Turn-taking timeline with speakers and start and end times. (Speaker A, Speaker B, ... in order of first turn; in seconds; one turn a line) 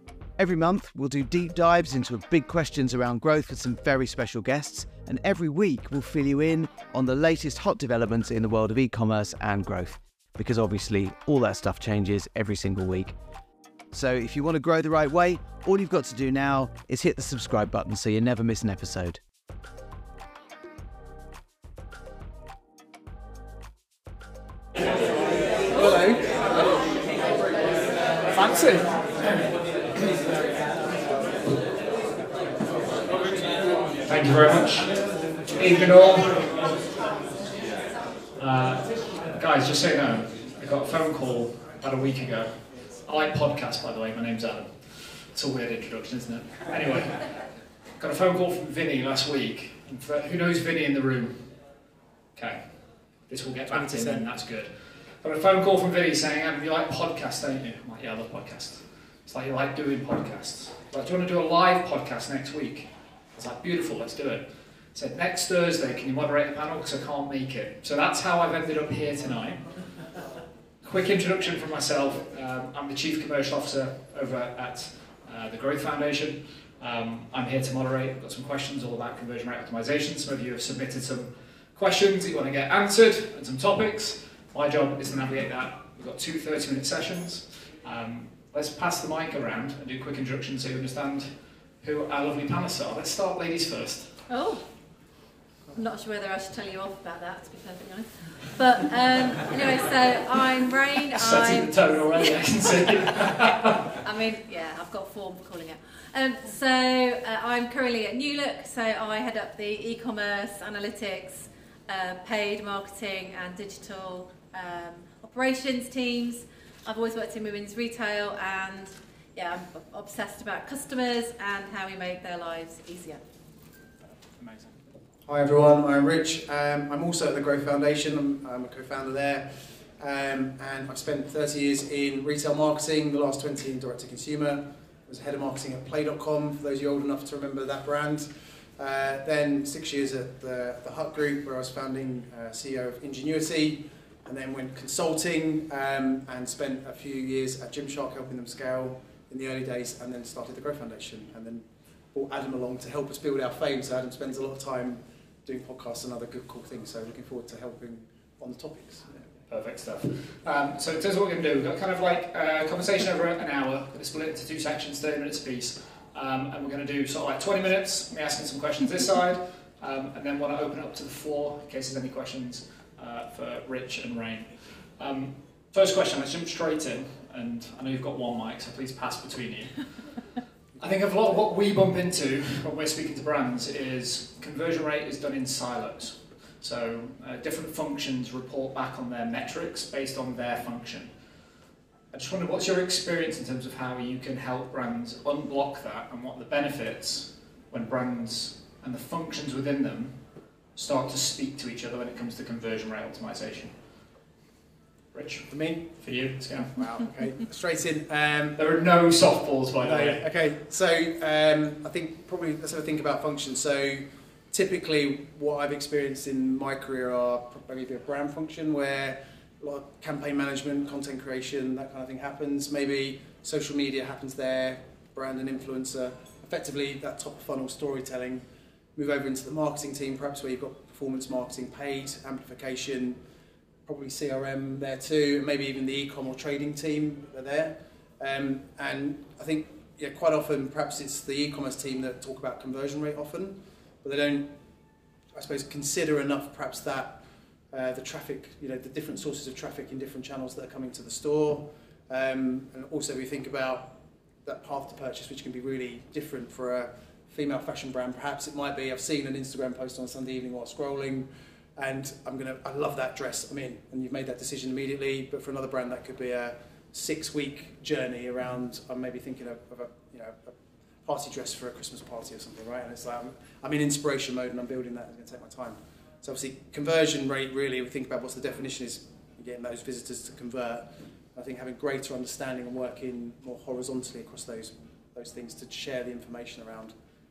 Speaker A: 0.4-13.1
Speaker A: 13.9-19.2
Speaker B: 25.7-26.7
Speaker C: 28.3-29.4
Speaker B: 29.9-30.7
Speaker C: 34.0-34.9
Speaker C: 35.5-36.7
Speaker C: 38.4-47.3
Speaker C: 48.0-51.4
Speaker C: 52.4-52.6
Speaker C: 53.3-69.8
Speaker B: 53.7-54.2
Speaker C: 70.8-94.2
Speaker D: 94.3-94.7
Speaker D: 95.7-103.1
Speaker C: 101.1-103.8
Speaker D: 103.9-123.2
Speaker C: 124.4-124.8
Speaker B: 125.2-159.2
Speaker C: 159.5-180.3
Speaker C: 180.8-191.1
Speaker C: 192.1-200.2
Speaker C: 200.8-203.7
Speaker C: 205.1-206.9
Speaker B: 205.5-205.9
Speaker B: 206.5-208.6
Speaker C: 208.6-210.2
Speaker B: 209.8-228.4
Speaker B: 228.9-233.2
Speaker B: 233.8-244.5
Speaker B: 245.3-286.9